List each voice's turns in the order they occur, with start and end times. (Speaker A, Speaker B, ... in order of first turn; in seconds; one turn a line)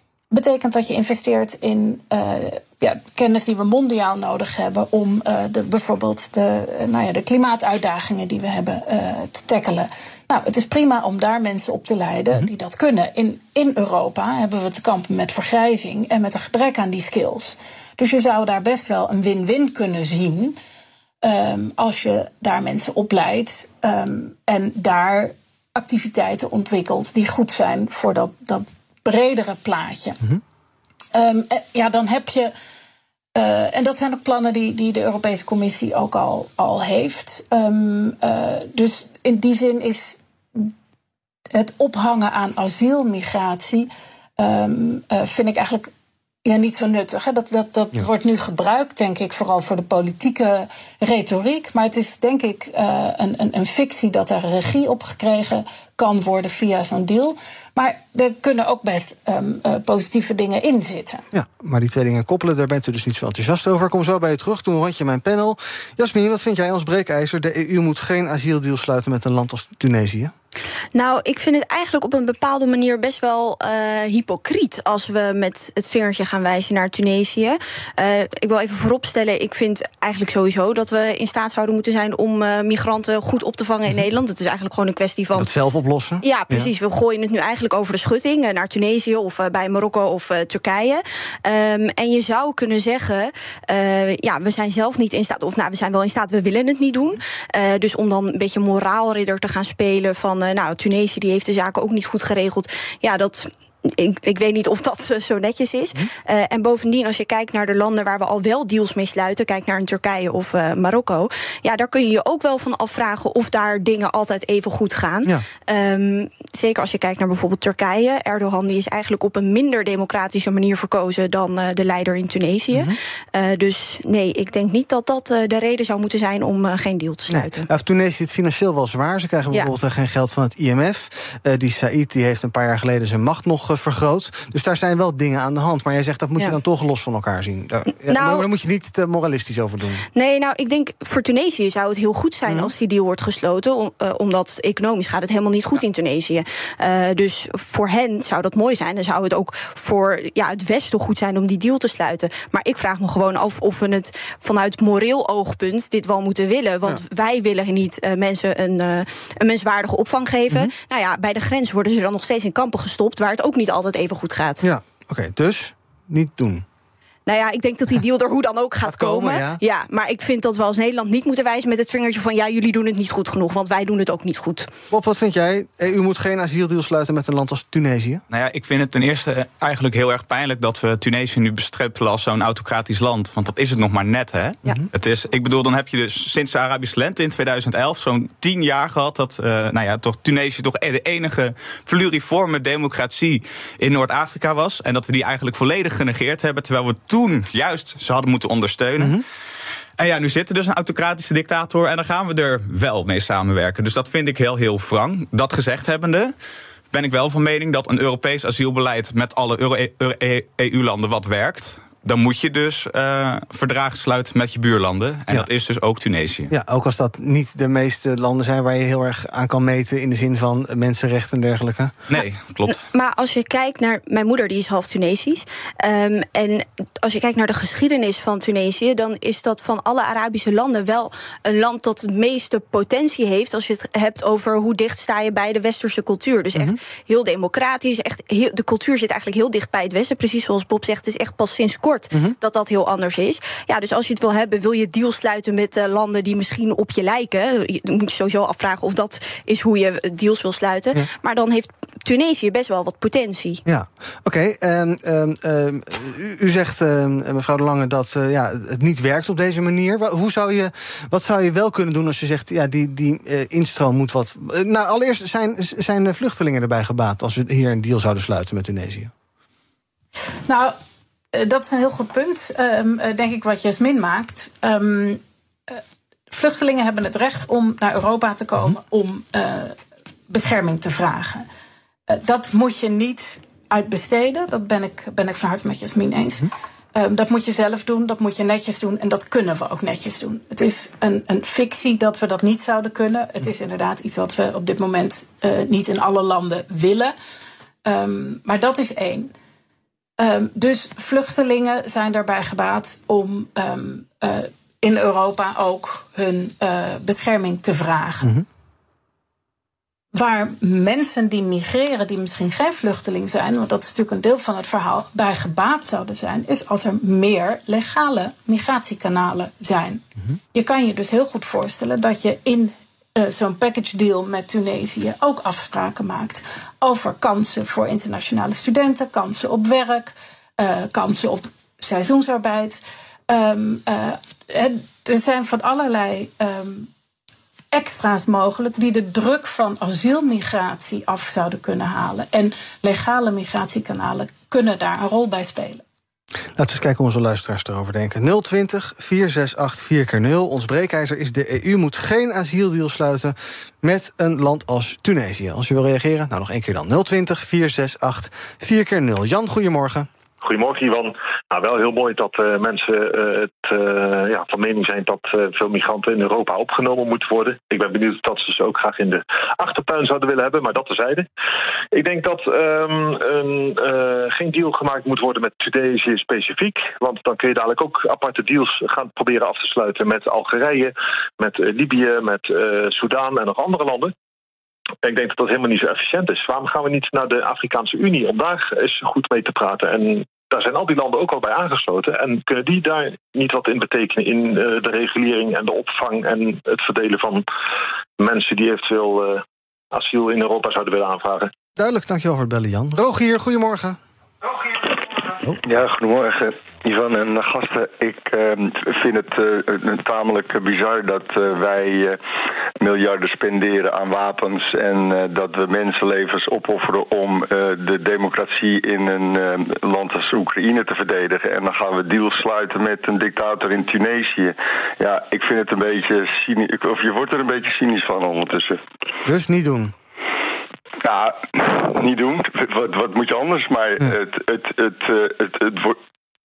Speaker A: 0.3-20.6
Speaker A: 21.2-30.2
Speaker A: 31.1-32.5
Speaker A: 33.3-40.7
Speaker A: 41.5-45.9
Speaker A: 46.4-61.2
Speaker B: 61.3-70.3
Speaker C: 70.9-85.5
Speaker B: 85.3-86.7
Speaker C: 86.2-127.7
Speaker B: 127.3-140.0
Speaker C: 138.1-138.4
Speaker C: 140.1-164.6
Speaker B: 164.6-166.6
Speaker C: 167.3-174.7
Speaker B: 168.8-169.6
Speaker B: 174.9-178.2
Speaker D: 178.3-199.2
Speaker B: 199.0-199.2
Speaker D: 200.0-206.3
Speaker D: 206.9-216.5
Speaker B: 216.5-221.9
Speaker D: 222.1-222.8
Speaker C: 222.7-253.6
Speaker B: 253.7-269.1
Speaker A: 270.4-270.7
Speaker A: 271.3-279.8
Speaker A: 280.3-281.4
Speaker A: 282.1-297.1
Speaker A: 297.8-299.3
Speaker A: 300.2-308.3
Speaker A: 310.1-336.9
Speaker A: 337.7-345.8
Speaker B: 346.6-360.1
Speaker E: 360.4-371.2
Speaker E: 371.9-384.1
Speaker E: 385.0-397.4
Speaker E: 398.2-401.5
Speaker B: 401.8-404.0
Speaker F: 405.6-412.2
Speaker F: 412.8-428.8
Speaker B: 429.2-429.9
Speaker F: 431.0-436.0